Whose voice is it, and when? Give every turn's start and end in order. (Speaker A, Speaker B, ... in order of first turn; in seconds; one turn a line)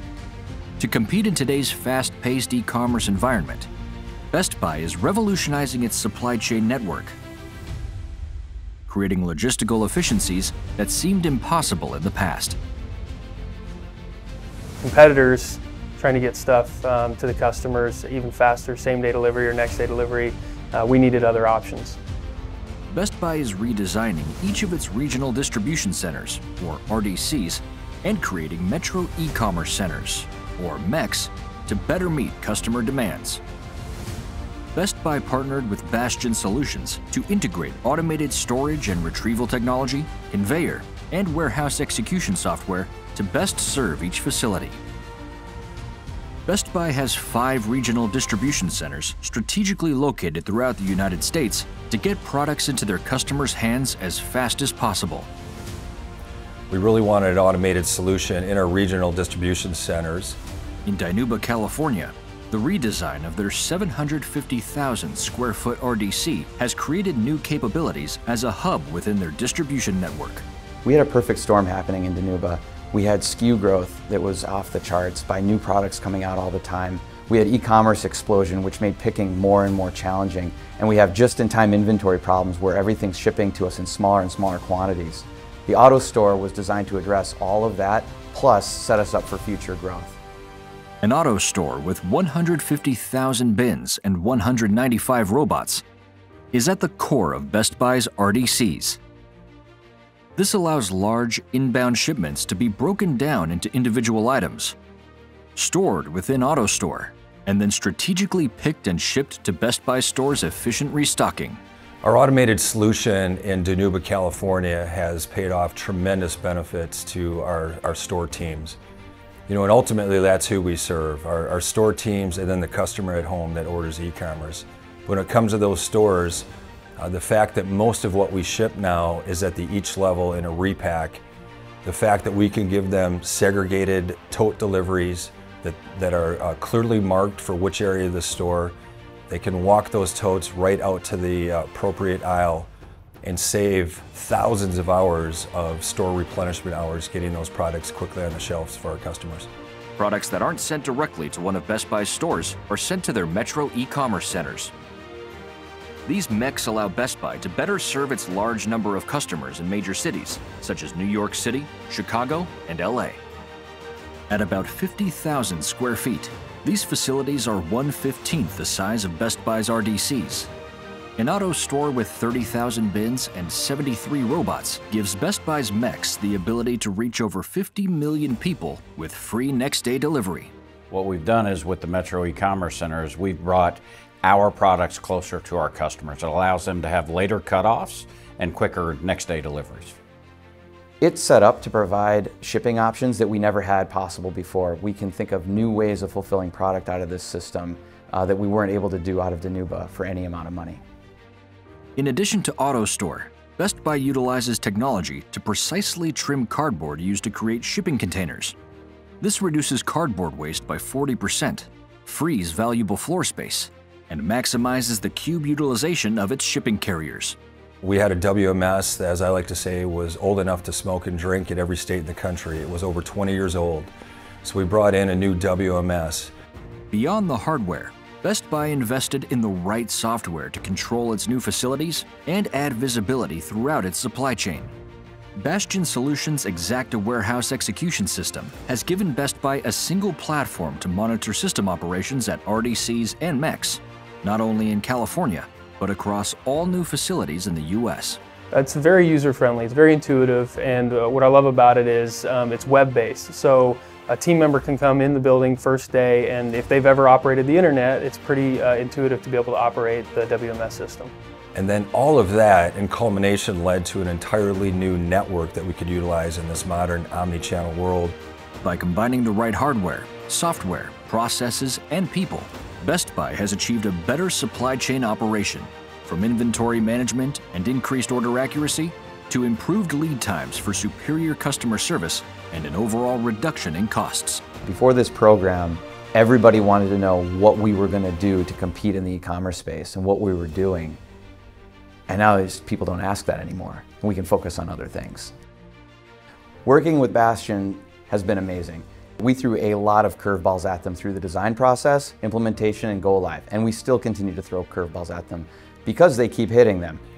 Speaker A: 0.8-3.7
Speaker A: 4.3-7.2
Speaker A: 8.9-12.6
Speaker B: 14.8-22.0
Speaker A: 22.9-33.4
Speaker A: 34.7-44.8
Speaker A: 46.5-55.3
Speaker C: 56.7-60.4
Speaker A: 60.9-70.4
Speaker D: 70.8-90.2
Speaker A: 91.0-95.8
Speaker A: 96.5-99.0
Speaker A: 100.3-104.8
Speaker A: 105.5-111.6
Speaker C: 112.0-118.8
Speaker C: 119.5-126.5
Speaker C: 127.0-131.2
Speaker C: 131.8-138.8
Speaker C: 139.3-142.7
Speaker C: 143.2-149.5
Speaker A: 150.0-154.7
Speaker A: 156.0-163.2
Speaker A: 164.3-170.5
Speaker A: 171.2-180.5
Speaker E: 180.9-190.0
Speaker D: 191.0-200.8
Speaker A: 202.0-208.5
Speaker A: 209.2-217.4
Speaker C: 217.8-226.3
Speaker A: 226.9-234.7
Speaker A: 235.4-248.2
Speaker B: 248.5-261.1
Speaker C: 261.5-268.2
Speaker A: 268.6-284.4
Speaker D: 284.6-291.0
Speaker D: 292.1-295.3
Speaker D: 296.6-307.0